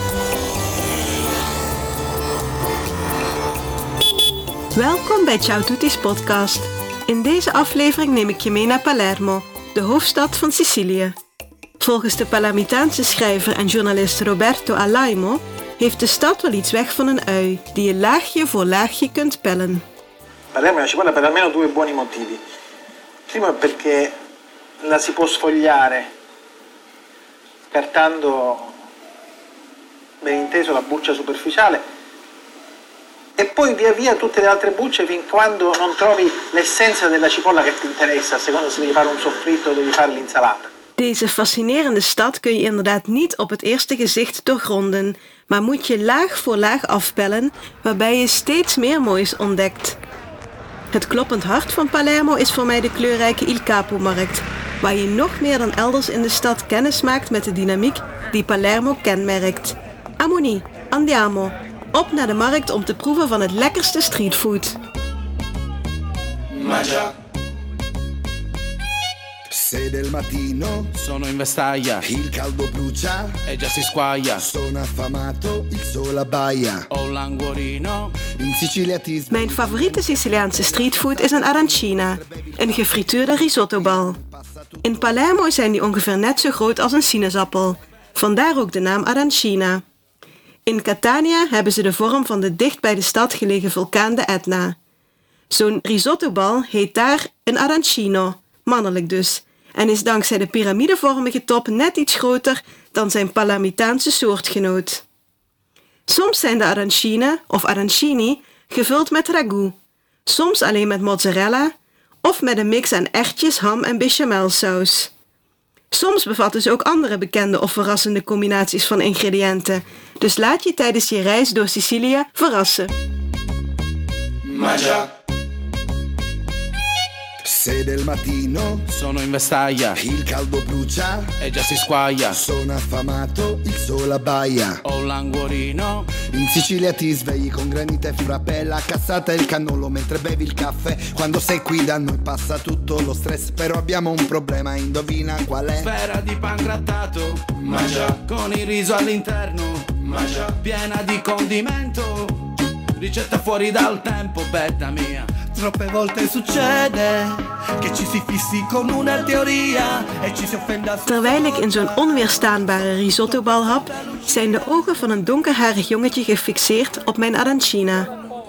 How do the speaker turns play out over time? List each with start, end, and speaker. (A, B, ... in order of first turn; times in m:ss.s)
0:04.8-0:11.2 A
0:11.8-0:19.8 A
0:20.5-0:22.4 B
0:23.3-0:24.2 B
0:24.8-0:26.1 B
0:27.7-0:28.7 B
0:30.2-0:31.8 B
0:33.4-0:40.7 B
0:41.0-0:50.0 A
0:50.9-1:04.8 A
1:06.7-1:07.1 C
1:09.5-1:10.9 D
1:11.0-1:12.1 C
1:12.0-1:13.4 D
1:13.5-1:14.4 C
1:14.4-1:16.9 D
1:16.9-1:18.2 C
1:18.4-1:25.2 D
1:19.3-1:24.2 A
1:24.8-1:29.8 A
1:30.7-1:34.8 A
1:35.5-1:45.0 A
1:46.1-1:55.1 A
1:55.9-2:02.9 A
2:04.6-2:05.0 C
2:07.4-2:08.8 D
2:08.9-2:10.0 C
2:09.9-2:11.3 D
2:11.4-2:12.4 C
2:12.3-2:14.8 D
2:14.8-2:16.2 C
2:16.3-2:25.9 D
2:25.8-2:32.4 C
2:33.0-2:35.4 C
2:35.4-2:44.2 E
2:41.1-2:48.1 A